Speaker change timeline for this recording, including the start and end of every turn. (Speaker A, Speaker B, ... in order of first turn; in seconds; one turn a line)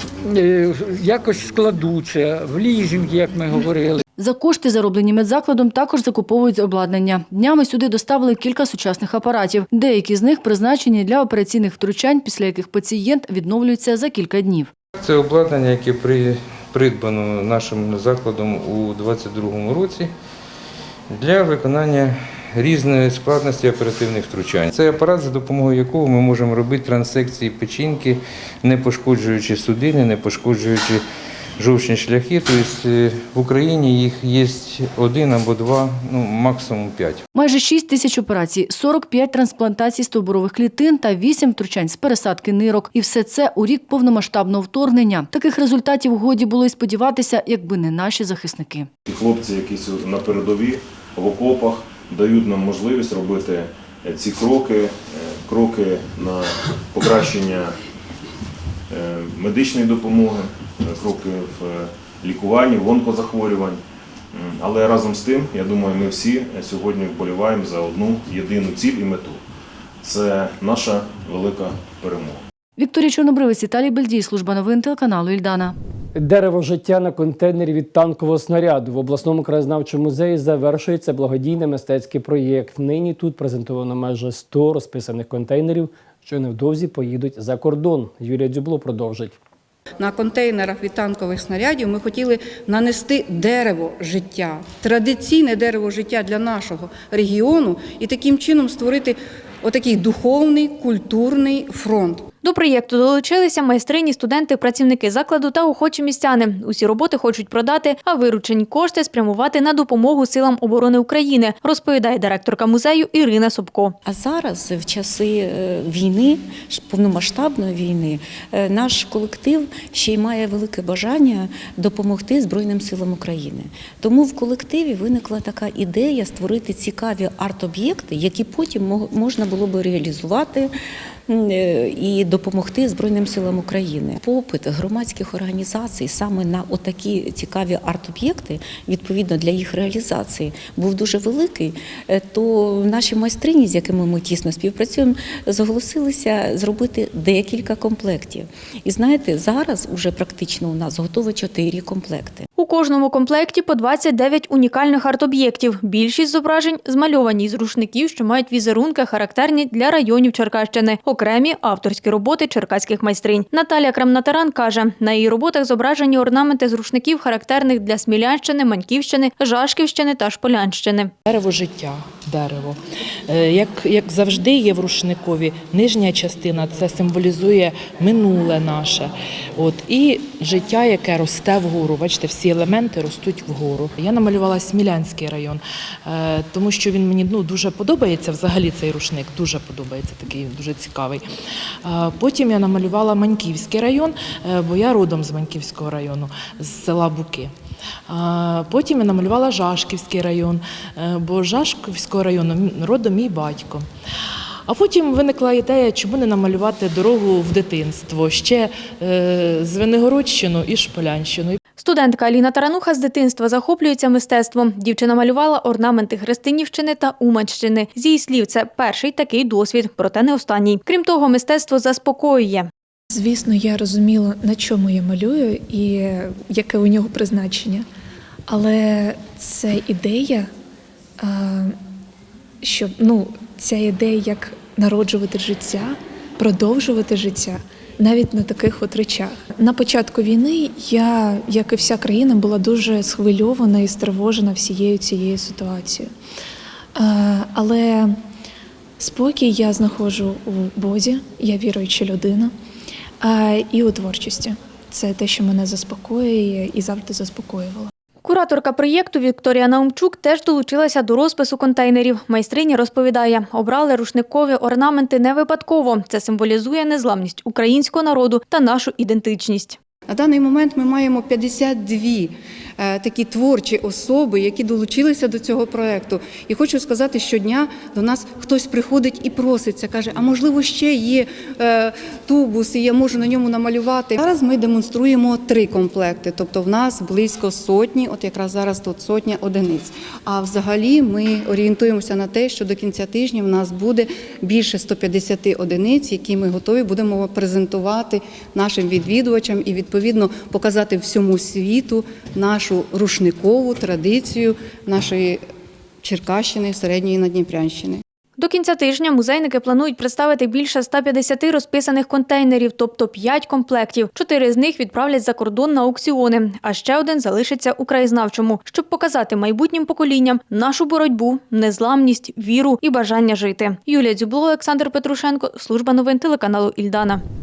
Speaker A: 0.2-4.0
Speaker B: 4.2-14.7
Speaker C: 15.0-20.1
Speaker C: 21.1-31.0
Speaker C: 31.6-37.2
Speaker B: 37.4-48.9
Speaker D: 49.1-57.7
Speaker D: 58.9-63.8
Speaker D: 64.3-69.4
Speaker D: 70.0-72.4
Speaker B: 72.8-75.8
Speaker E: 76.2-89.3
Speaker F: 90.0-102.2
Speaker G: 102.4-114.0
Speaker H: 114.1-130.7
Speaker H: 131.3-152.5
Speaker G: 152.6-171.1
Speaker I: 171.3-191.2
Speaker I: 191.8-197.5
Speaker I: 198.1-203.9
Speaker I: 204.7-211.6
Speaker G: 211.8-222.7
Speaker J: 223.1-227.9
Speaker J: 228.5-230.5
Speaker J: 231.2-231.8
Speaker J: 232.6-246.1
Speaker J: 246.9-248.2
Speaker J: 249.0-252.5
Speaker J: 253.2-257.9
Speaker G: 258.2-269.8
Speaker F: 270.1-305.4
Speaker F: 306.0-308.0
Speaker G: 308.4-327.2